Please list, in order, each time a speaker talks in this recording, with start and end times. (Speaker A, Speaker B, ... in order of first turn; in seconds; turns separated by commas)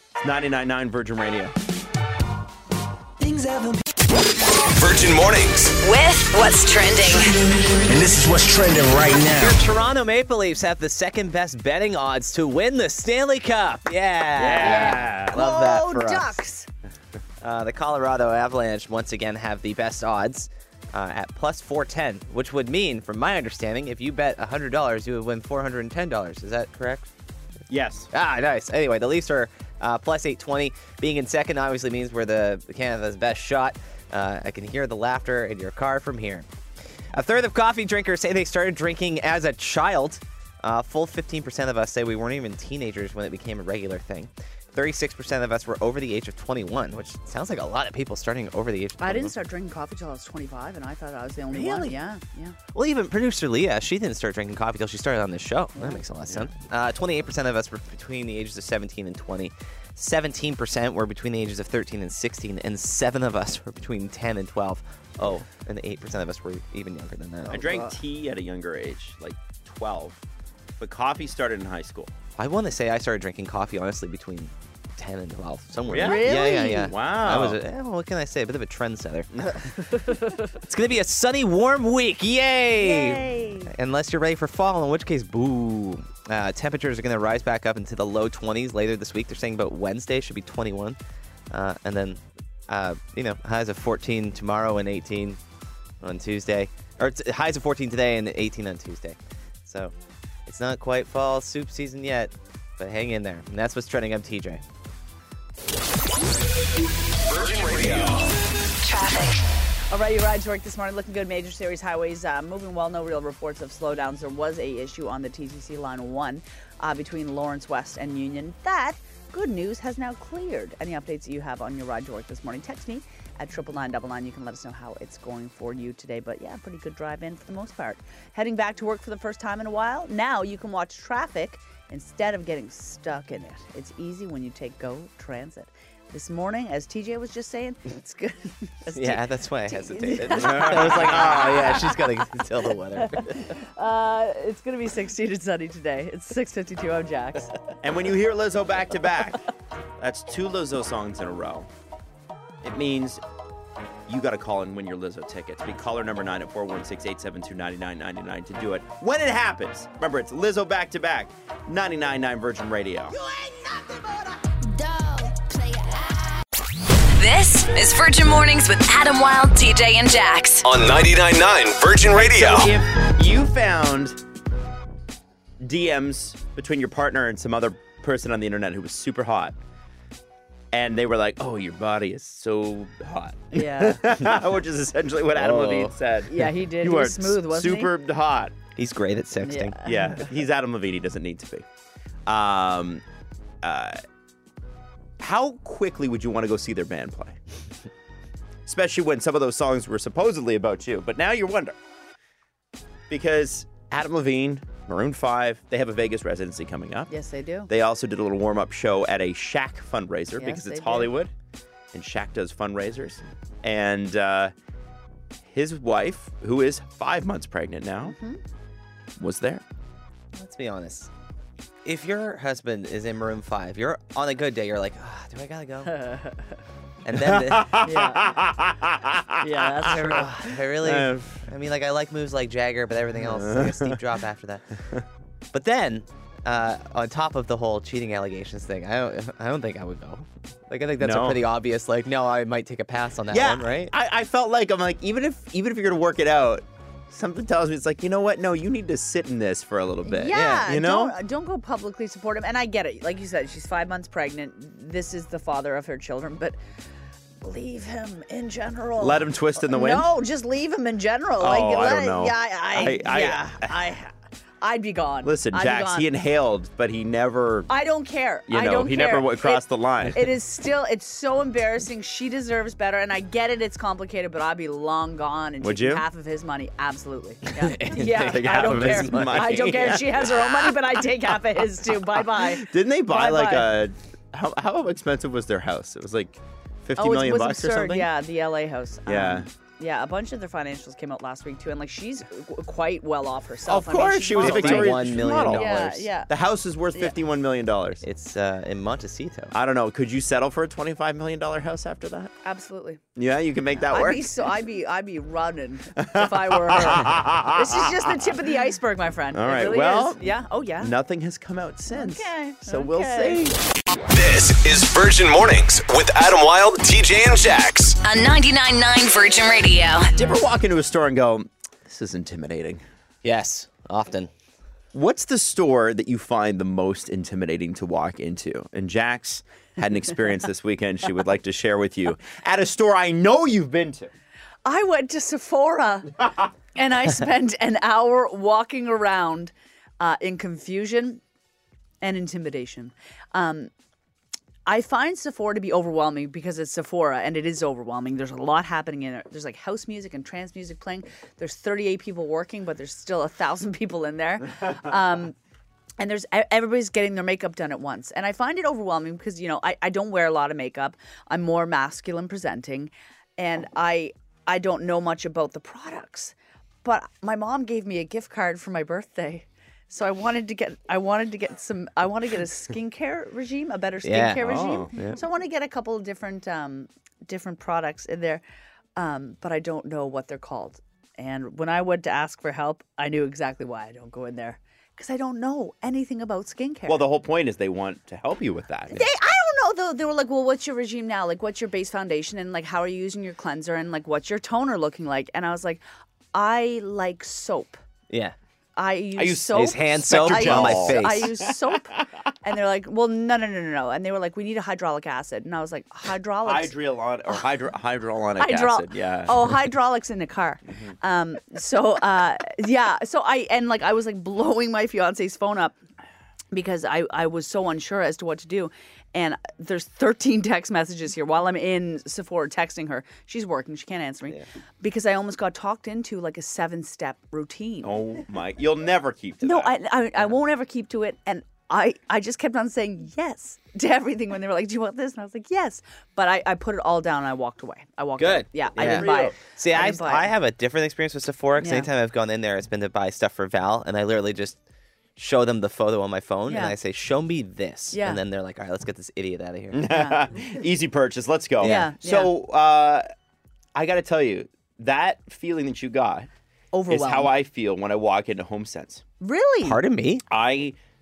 Speaker A: 0.2-1.6, Speaker B: 3.2-3.8, Speaker C: 4.7-5.7, Speaker D: 5.8-7.3, Speaker B: 7.8-9.6, Speaker E: 9.4-16.4, Speaker A: 14.3-15.4, Speaker F: 14.6-16.7, Speaker E: 17.4-27.1, Speaker A: 27.7-28.1, Speaker E: 28.1-36.5, Speaker E: 37.1-49.3, Speaker F: 49.0-52.5, Speaker E: 51.5-52.0, Speaker E: 52.7-67.7, Speaker F: 55.8-56.0, Speaker A: 67.5-70.2, Speaker F: 67.6-67.9, Speaker A: 70.8-72.1, Speaker E: 72.4-79.6, Speaker A: 75.9-77.6, Speaker F: 76.0-76.9, Speaker F: 80.0-80.4, Speaker E: 80.5-91.0, Speaker F: 82.8-83.7, Speaker E: 91.5-95.4, Speaker E: 96.0-99.9, Speaker E: 100.5-104.6, Speaker C: 107.2-108.3, Speaker D: 108.8-109.4, Speaker F: 109.9-142.3, Speaker E: 138.9-143.5, Speaker A: 140.3-141.8, Speaker F: 143.0-147.5, Speaker A: 147.8-149.4, Speaker A: 150.0-151.7, Speaker A: 152.6-153.2, Speaker A: 154.1-163.2, Speaker D: 167.2-170.7, Speaker C: 170.6-172.7, Speaker A: 172.1-174.2, Speaker A: 175.6-179.6, Speaker A: 180.7-188.6, Speaker F: 183.5-184.1, Speaker E: 185.3-185.9, Speaker F: 186.3-187.9, Speaker E: 188.8-189.8, Speaker F: 189.4-190.2, Speaker A: 189.8-191.6, Speaker A: 192.2-193.0, Speaker A: 193.6-194.0, Speaker A: 195.2-197.4, Speaker A: 198.7-201.8, Speaker A: 203.1-207.1, Speaker F: 207.1-207.7, Speaker A: 207.7-211.3, Speaker F: 210.4-211.1, Speaker A: 211.9-214.5, Speaker A: 215.4-218.1, Speaker F: 218.0-218.4, Speaker A: 219.2-219.6, Speaker E: 220.3-221.1, Speaker E: 221.8-225.9, Speaker F: 225.8-226.4, Speaker E: 227.0-227.8, Speaker A: 227.1-231.5, Speaker F: 227.8-228.3, Speaker F: 229.4-230.3, Speaker E: 229.8-234.6, Speaker A: 233.1-234.0, Speaker E: 235.5-243.9, Speaker A: 241.0-241.4, Speaker A: 243.3-251.2, Speaker F: 250.0-256.6, Speaker E: 250.3-250.7, Speaker F: 257.4-266.1, Speaker A: 259.0-260.1, Speaker A: 261.4-263.8, Speaker A: 265.2-267.7, Speaker F: 267.7-283.7, Speaker A: 268.5-270.3, Speaker A: 275.6-276.0, Speaker E: 277.6-280.0, Speaker A: 278.0-280.8, Speaker A: 282.3-288.1, Speaker F: 287.0-296.3, Speaker A: 289.1-289.5, Speaker A: 293.7-295.7, Speaker E: 294.4-296.1, Speaker A: 296.3-298.0, Speaker E: 298.0-299.5, Speaker A: 299.5-302.3, Speaker F: 302.4-303.0, Speaker A: 303.1-304.3, Speaker F: 303.9-310.9, Speaker A: 305.9-308.3, Speaker A: 309.3-310.3, Speaker A: 310.8-313.6, Speaker F: 311.9-313.4, Speaker C: 314.1-318.0, Speaker D: 318.0-320.1, Speaker A: 320.1-322.8, Speaker E: 323.2-324.3, Speaker A: 324.9-334.1, Speaker F: 334.6-341.2, Speaker F: 342.0-343.7, Speaker F: 344.6-355.3, Speaker F: 356.0-378.4, Speaker E: 374.0-375.2, Speaker A: 374.4-374.9, Speaker F: 378.9-387.0, Speaker A: 386.9-389.1, Speaker F: 388.9-395.8, Speaker F: 396.3-397.8, Speaker E: 398.1-398.4, Speaker F: 398.8-406.7, Speaker A: 399.1-402.1, Speaker E: 399.5-401.4, Speaker A: 406.4-409.5, Speaker F: 408.4-415.8, Speaker F: 416.5-427.9, Speaker A: 427.8-429.8, Speaker F: 429.4-440.3, Speaker E: 438.2-444.6, Speaker A: 438.7-439.4, Speaker F: 441.6-441.9, Speaker E: 445.2-449.9, Speaker F: 446.5-446.7, Speaker F: 447.9-448.2, Speaker A: 449.7-453.1, Speaker F: 449.8-450.2, Speaker E: 451.6-451.9, Speaker F: 451.6-452.3, Speaker A: 453.7-456.3, Speaker F: 456.7-457.3, Speaker A: 456.9-459.0, Speaker F: 459.2-459.8, Speaker E: 459.6-460.2, Speaker A: 460.3-460.8